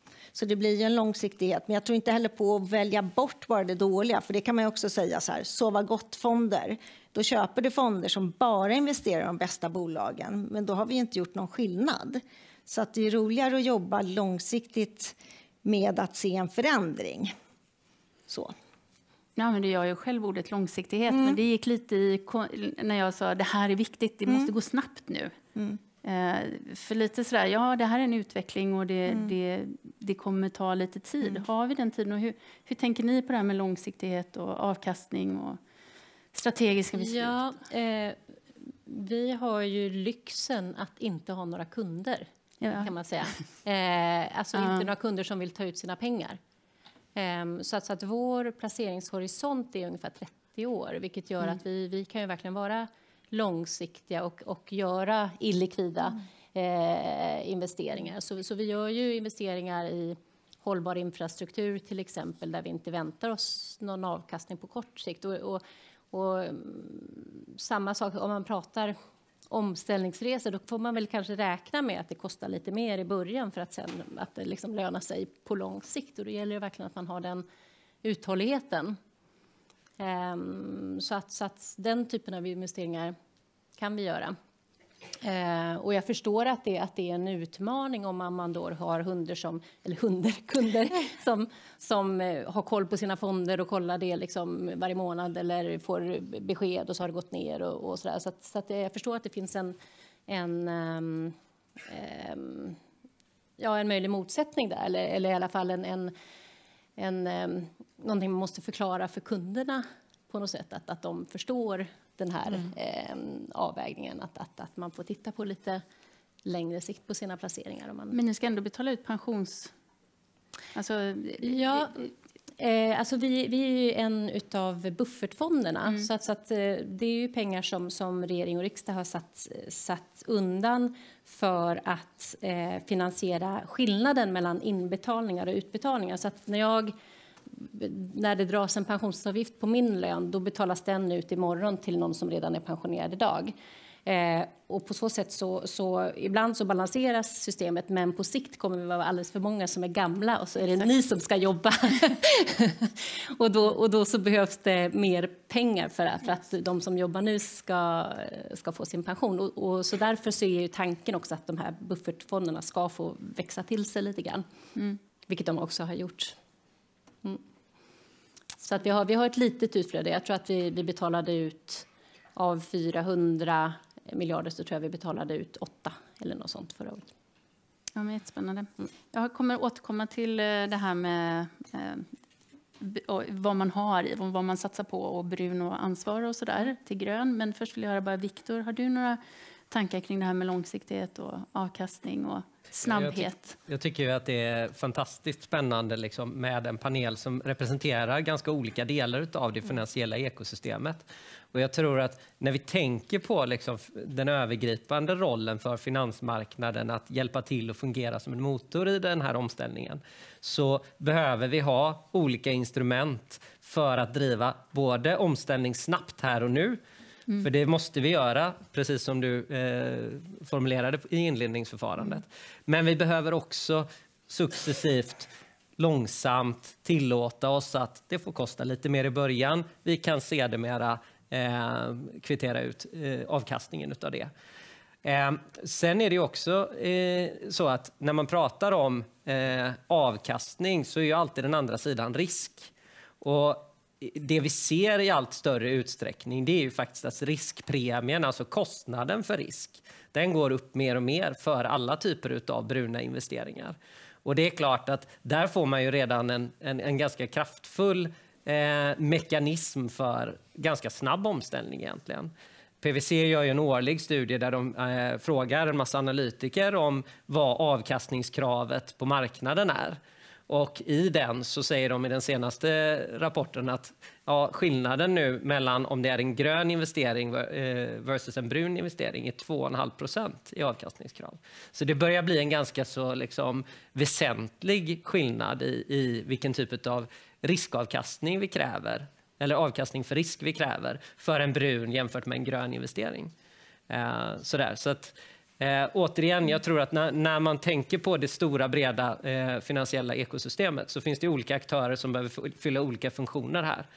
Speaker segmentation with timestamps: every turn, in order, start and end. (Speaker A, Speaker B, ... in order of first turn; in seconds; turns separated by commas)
Speaker A: 0.3-17.3, Speaker A: 18.3-18.5, Speaker B: 19.4-25.4, Speaker A: 21.1-21.4, Speaker B: 26.0-35.6, Speaker A: 29.1-29.3, Speaker B: 36.3-37.4, Speaker C: 37.0-38.2, Speaker C: 38.9-42.3, Speaker B: 42.6-42.9, Speaker C: 42.8-46.4, Speaker B: 44.5-44.9, Speaker C: 47.1-69.0, Speaker C: 69.5-77.5, Speaker C: 78.0-79.0, Speaker C: 80.0-83.1, Speaker C: 83.8-84.3, Speaker C: 85.2-99.8, Speaker C: 100.3-101.3, Speaker C: 101.9-102.8, Speaker C: 103.6-106.1, Speaker C: 107.0-115.8, Speaker C: 116.5-118.2, Speaker B: 118.1-119.7, Speaker B: 120.7-122.1, Speaker C: 121.4-122.0, Speaker C: 122.6-136.9, Speaker C: 137.5-143.5, Speaker C: 144.1-164.4, Speaker C: 165.3-166.4, Speaker C: 168.6-177.1, Speaker B: 177.9-182.1, Speaker B: 182.8-193.6, Speaker D: 192.8-216.8, Speaker D: 217.4-234.3, Speaker D: 235.0-242.7, Speaker D: 243.2-293.3, Speaker D: 293.9-303.9